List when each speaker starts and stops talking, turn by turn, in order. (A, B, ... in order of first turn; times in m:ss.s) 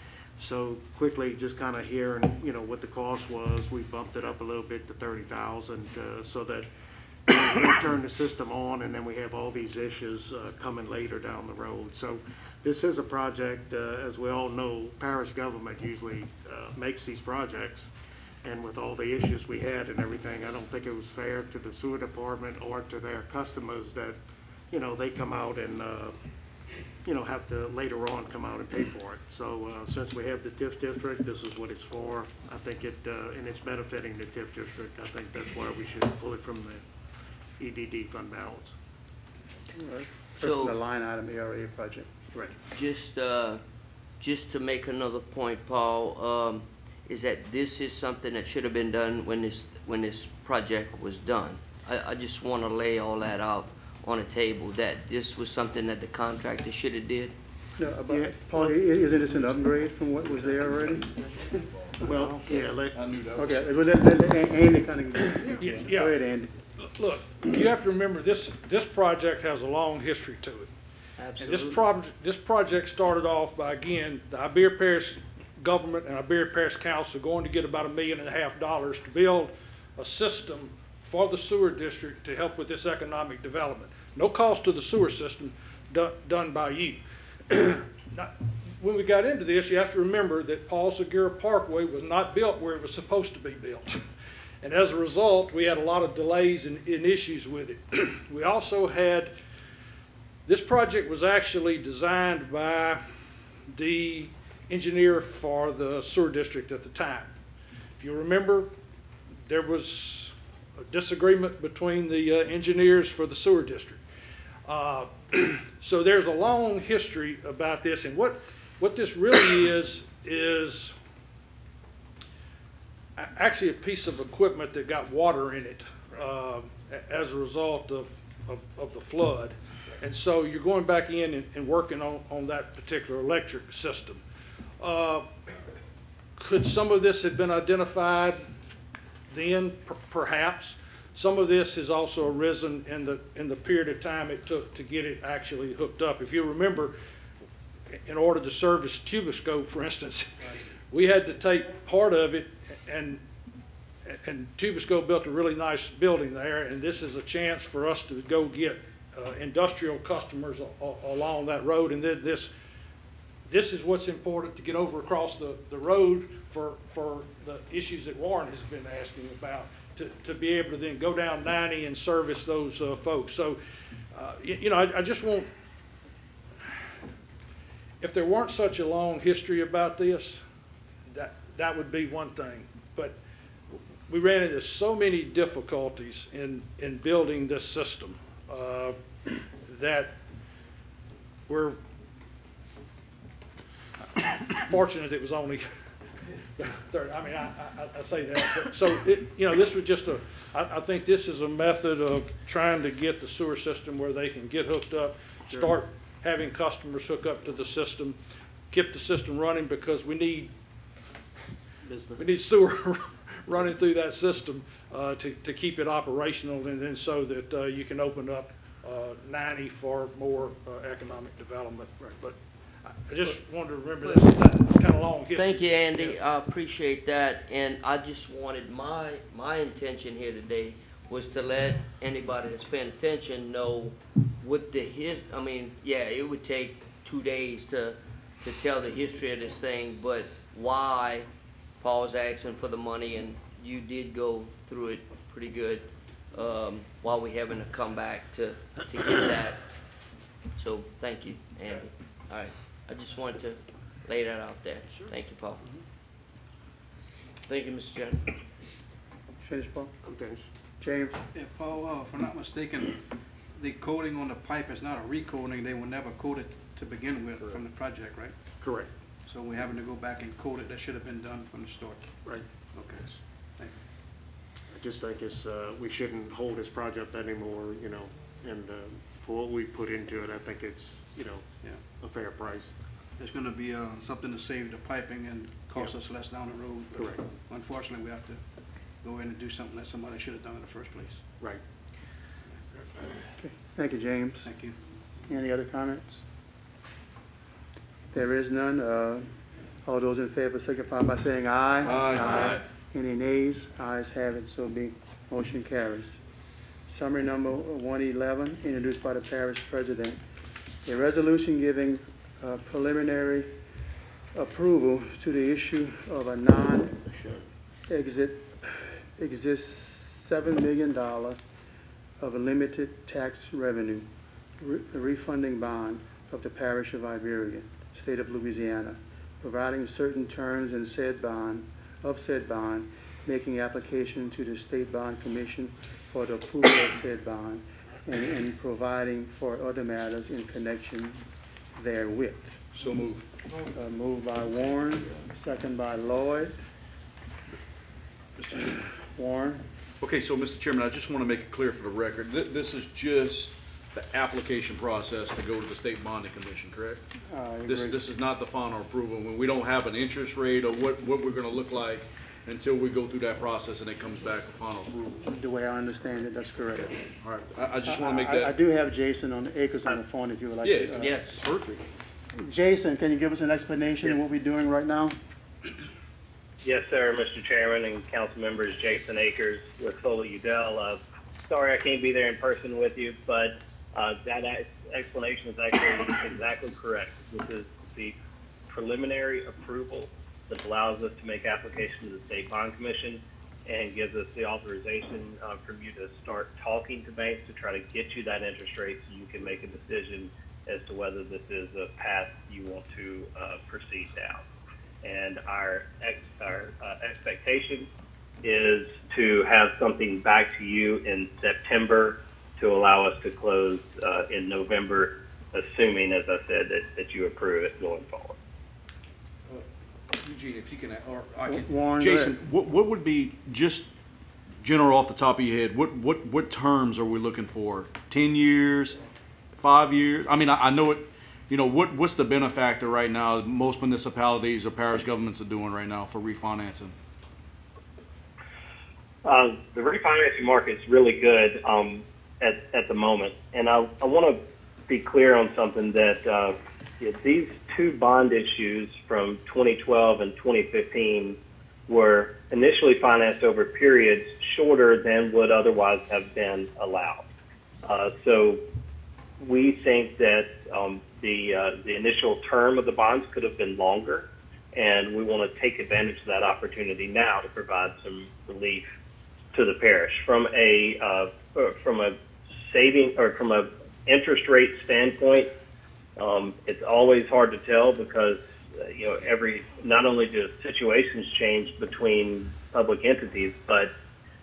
0:00.4-0:06.7 A
0:07.3-0:17.9 A
0:18.4-0:24.2 A
0:24.7-0:26.2 A
0:27.0-0:36.8 A
0:37.6-0:38.8 A
0:39.8-0:42.1 B
0:40.4-0:40.8 C
0:42.7-0:43.6 C
0:44.2-0:57.3 C
0:57.8-1:01.1 B
0:58.1-0:59.8 A
1:01.0-1:01.5 A
1:02.0-1:03.0 A
1:02.1-1:02.6 B
1:02.9-1:03.6 D
1:03.4-1:06.5 B
1:05.6-1:06.2 E
1:06.8-1:10.7 E
1:11.2-1:11.9 A
1:11.4-1:34.0 E
1:34.6-1:39.3 E
1:40.5-1:43.0 E
1:43.7-1:47.3 E
1:48.0-1:48.7 E
1:49.5-1:54.0 E
1:54.7-2:01.0 E
2:03.2-2:14.2 E
2:14.8-2:15.3 E
2:16.4-2:18.5 E
2:19.3-2:26.9 E
2:28.0-2:30.3 E
2:30.9-2:33.2 E
2:34.1-2:42.5 E
2:43.5-2:53.6 E
2:54.2-2:55.5 E
2:58.0-3:00.4 E
3:01.1-3:03.2 E
3:04.1-3:09.0 E
3:09.7-3:10.2 E
3:11.5-3:11.8 E
3:14.2-3:15.7 E
3:16.6-3:28.2 E
3:25.5-3:25.8 A
3:28.7-3:30.5 E
3:31.8-3:32.4 A
3:32.2-3:46.2 E
3:45.4-4:01.3 C
4:01.8-4:09.6 C
4:10.6-4:15.6 C
4:17.5-4:18.4 C
4:19.4-4:19.9 B
4:20.0-4:20.4 A
4:20.8-4:21.2 B
4:21.3-4:23.0 F
4:23.6-4:28.4 F
4:28.6-4:28.9 A
4:29.3-4:32.1 F
4:32.7-4:33.8 F
4:34.7-4:42.7 A
4:43.2-4:48.4 F
4:47.0-4:47.2 A
4:49.0-4:51.2 F
4:53.4-4:54.5 B
4:54.4-4:54.8 F
4:55.3-4:56.2 B
4:58.1-4:59.3 B
4:59.8-5:06.2 B
5:01.8-5:02.6 D
5:06.9-5:10.2 B
5:10.8-5:13.5 B
5:14.3-5:17.0 B
5:17.1-5:17.4 A
5:17.9-5:21.4 B
5:22.2-5:24.1 B
5:24.6-5:41.2 B
5:41.8-5:42.7 B
5:42.8-5:43.2 D
5:43.7-5:46.6 B
5:48.5-5:49.6 B
5:50.0-5:57.0 D
5:57.3-5:58.0 B
5:57.7-6:05.3 D
6:05.3-6:07.0 B
6:07.2-6:08.5 D
6:07.9-6:11.2 B
6:10.6-6:11.8 D
6:11.0-6:11.4 C
6:12.4-6:15.2 B
6:16.6-6:28.2 G
6:28.7-6:44.4 G
6:45.0-6:47.9 G
6:48.4-6:58.4 G
6:59.5-7:03.9 D
7:01.5-7:02.4 B
7:04.6-7:09.0 D
7:09.6-7:17.0 D
7:19.2-7:31.4 G
7:31.9-7:37.3 G
7:37.8-7:38.6 G
7:39.4-7:48.9 G
7:49.5-7:52.2 G
7:52.7-7:55.5 G
7:56.2-8:03.9 G